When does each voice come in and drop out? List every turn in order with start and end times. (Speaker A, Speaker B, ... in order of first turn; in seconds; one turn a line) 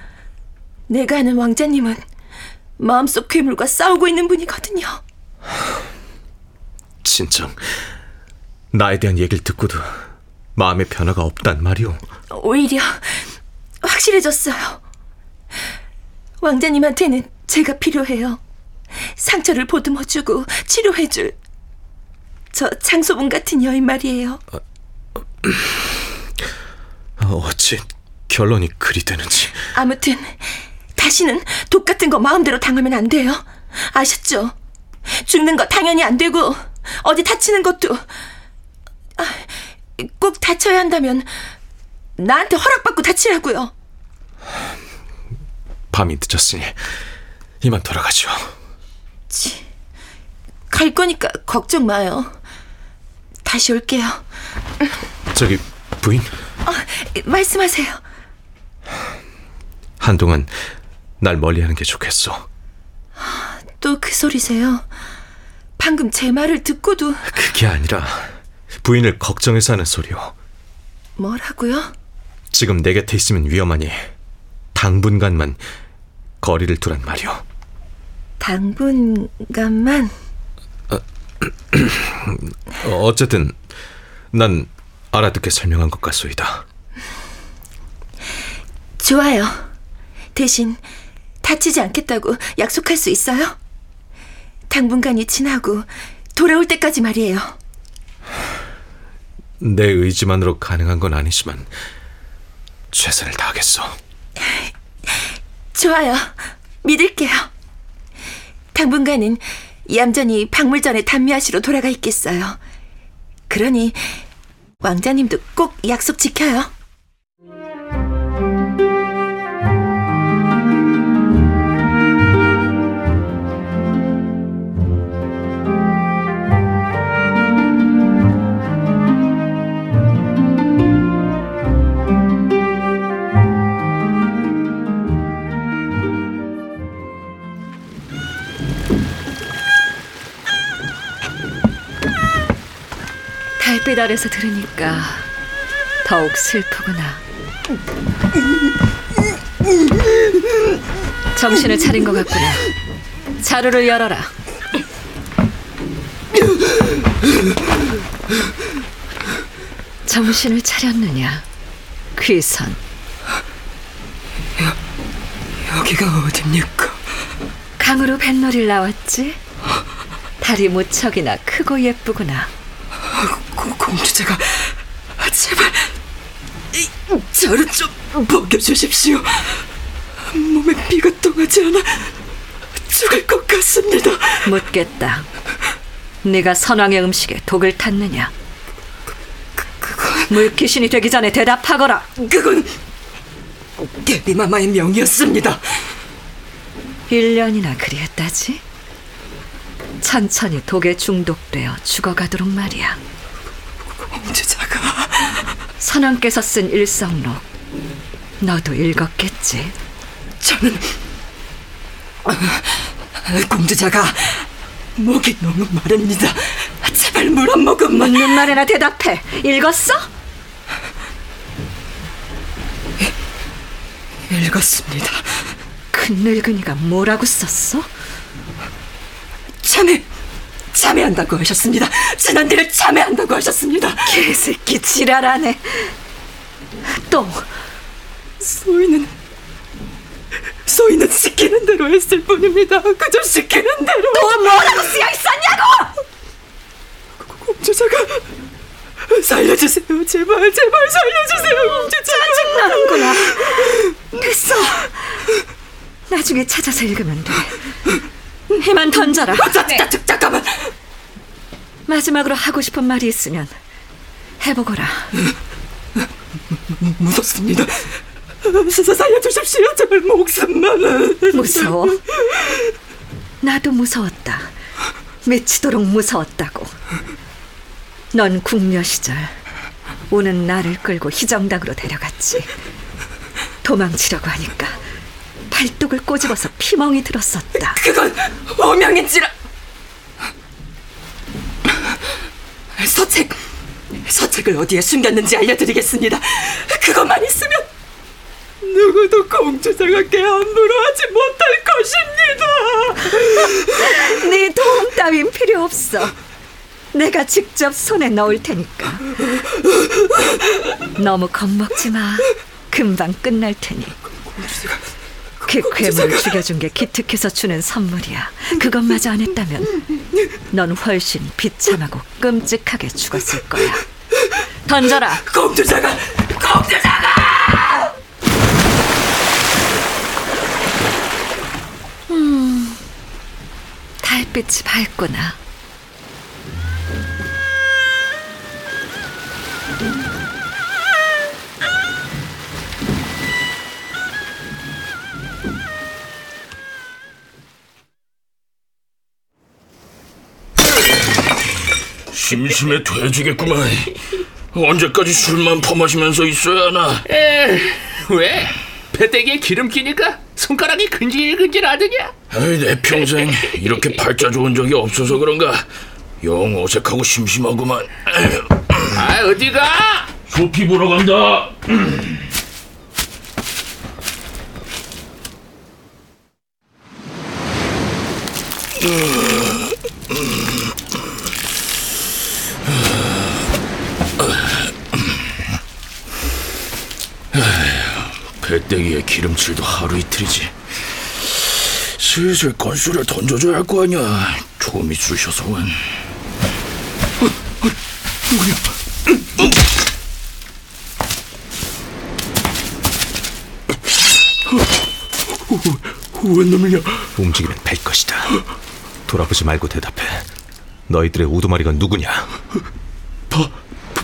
Speaker A: 0.9-2.0
Speaker A: 2.8-5.0
Speaker B: 7.0-7.6
Speaker B: 8.7-9.9
Speaker B: 10.6-12.0
Speaker A: 12.3-14.8
Speaker A: 16.4-18.4
Speaker A: 19.2-21.4
Speaker A: 22.5-24.4
Speaker B: 27.2-29.6
Speaker A: 29.7-34.5
Speaker A: 35.2-38.0
Speaker A: 39.2-41.3
Speaker A: 42.2-43.7
Speaker B: 45.9-46.8
Speaker B: 47.6-48.5
Speaker A: 49.3-49.6
Speaker A: 50.7-52.4
Speaker A: 53.4-54.2
Speaker B: 55.3-56.3
Speaker A: 56.6-58.0
Speaker B: 60.0-60.5
Speaker B: 61.2-62.5
Speaker A: 63.2-64.9
Speaker A: 65.8-67.3
Speaker B: 67.3-70.3
Speaker A: 71.2-71.9
Speaker B: 72.5-74.1
Speaker B: 74.8-75.6
Speaker B: 76.4-77.4
Speaker A: 78.4-80.1
Speaker B: 81.7-83.6
Speaker B: 84.3-86.7
Speaker A: 89.0-89.7
Speaker A: 90.3-90.8
Speaker A: 91.4-93.6
Speaker A: 94.7-97.6
Speaker B: 99.6-101.7
Speaker B: 102.9-104.0
Speaker A: 105.7-107.5
Speaker A: 108.7-112.6
Speaker A: 113.5-114.2
Speaker A: 114.8-116.7
Speaker C: 143.6-145.3
Speaker C: 146.0-147.2
Speaker C: 151.3-152.7
Speaker C: 153.4-154.3
Speaker C: 160.1-161.4
Speaker C: 162.2-162.8
Speaker D: 165.7-167.0
Speaker C: 167.8-169.4
Speaker C: 170.4-172.5
Speaker D: 173.2-175.9
Speaker D: 176.8-179.6
Speaker D: 180.3-182.1
Speaker D: 182.9-184.4
Speaker C: 184.4-185.3
Speaker C: 186.2-188.3
Speaker D: 189.8-190.3
Speaker C: 190.3-192.1
Speaker D: 192.2-192.7
Speaker D: 194.0-195.6
Speaker C: 197.1-198.6
Speaker C: 200.0-203.0
Speaker D: 204.1-205.4
Speaker C: 205.8-207.4
Speaker C: 208.4-209.7
Speaker D: 210.4-210.8
Speaker D: 213.3-218.3
Speaker C: 217.9-220.1
Speaker D: 224.3-225.2
Speaker C: 225.9-227.9
Speaker D: 229.6-230.1
Speaker D: 230.7-234.0
Speaker C: 234.0-235.9
Speaker C: 237.0-237.4
Speaker D: 238.4-239.1
Speaker D: 240.7-244.5
Speaker C: 244.1-245.9
Speaker D: 247.3-248.2
Speaker D: 249.1-252.4
Speaker C: 251.6-255.0
Speaker C: 256.1-257.6
Speaker C: 258.6-259.8
Speaker D: 259.3-260.7
Speaker C: 261.9-263.6
Speaker C: 264.4-265.1
Speaker D: 266.8-267.9
Speaker D: 268.4-271.5
Speaker C: 271.3-272.0
Speaker C: 273.4-274.5
Speaker C: 275.2-276.7
Speaker C: 278.1-279.4
Speaker C: 280.1-282.5
Speaker C: 283.6-284.8
Speaker C: 285.5-287.8
Speaker D: 287.7-289.3
Speaker D: 292.8-293.4
Speaker D: 294.1-297.7
Speaker D: 298.6-303.0
Speaker C: 303.2-306.1
Speaker C: 306.9-309.1
Speaker C: 310.9-314.0
Speaker D: 314.4-314.8
Speaker C: 315.5-319.8
Speaker D: 315.6-316.0
Speaker C: 320.5-323.8
Speaker C: 324.6-325.3
Speaker D: 325.3-327.9
Speaker C: 332.1-332.8
Speaker C: 334.0-335.4
Speaker E: 352.1-353.9
Speaker E: 354.5-357.1
Speaker F: 357.1-362.1
Speaker E: 362.3-365.7
Speaker F: 363.3-363.6
Speaker E: 366.2-368.9
Speaker F: 368.9-370.2
Speaker E: 370.3-371.7
Speaker E: 387.3-390.6
Speaker E: 391.3-395.9
Speaker E: 405.5-407.1
Speaker B: 407.2-408.3
Speaker B: 409.1-410.3
Speaker B: 410.9-412.3